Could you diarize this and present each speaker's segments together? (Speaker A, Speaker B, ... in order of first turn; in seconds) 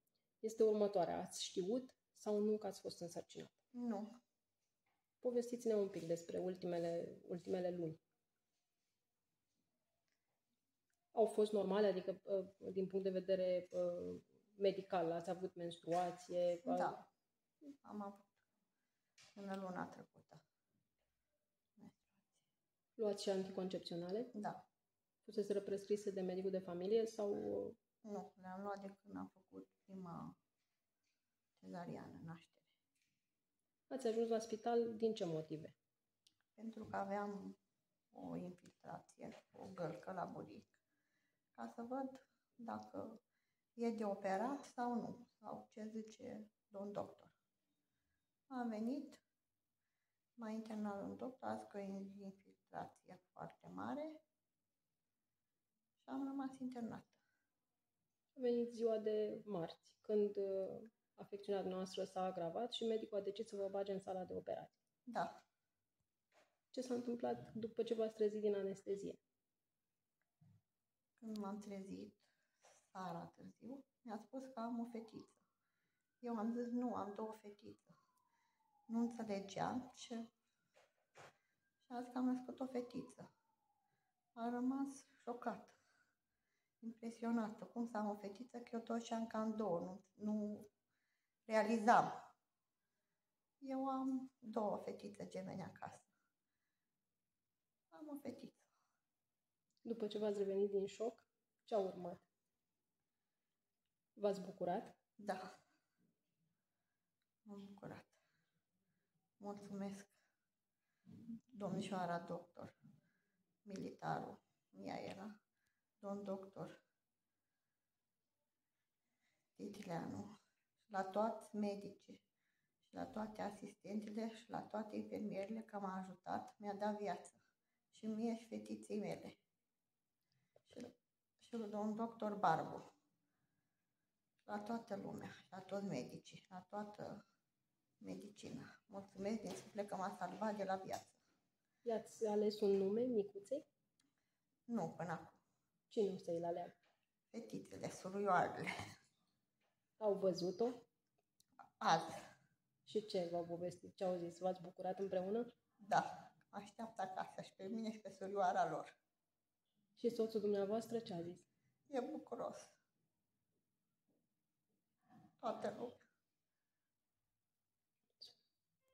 Speaker A: 0.4-3.5, 5.2-8.0, 11.1-17.0, 23.0-24.3, 25.3-27.8, 33.9-35.7, 58.3-64.7, 66.7-69.2, 99.8-102.2, 104.2-104.9, 141.8-143.7, 145.9-146.8, 150.0-150.8, 152.9-155.4, 160.0-161.4
Speaker B: 3.7-4.1, 16.6-17.0, 17.8-18.3, 19.4-20.4, 21.8-22.3, 24.3-24.6, 28.0-30.4, 31.6-32.7, 36.5-37.6, 38.1-40.8, 41.5-43.2, 43.8-47.3, 48.5-49.2, 50.4-54.2, 56.0-57.2, 71.2-72.2, 72.9-75.4, 76.2-77.9, 78.9-80.2, 81.8-83.3, 84.3-85.8, 86.8-90.7, 91.5-92.1, 93.6-96.1, 97.9-98.7, 105.2-105.4, 107.5-108.2, 109.4-110.1, 111.5-112.7, 113.6-115.3, 116.0-116.7, 119.5-120.3, 120.9-122.2, 122.8-127.4, 127.9-129.4, 130.7-132.8, 134.5-137.2, 138.0-141.2, 144.7-145.4, 147.3-148.7, 151.8-152.2, 155.8-158.9, 161.9-162.7, 165.4-166.0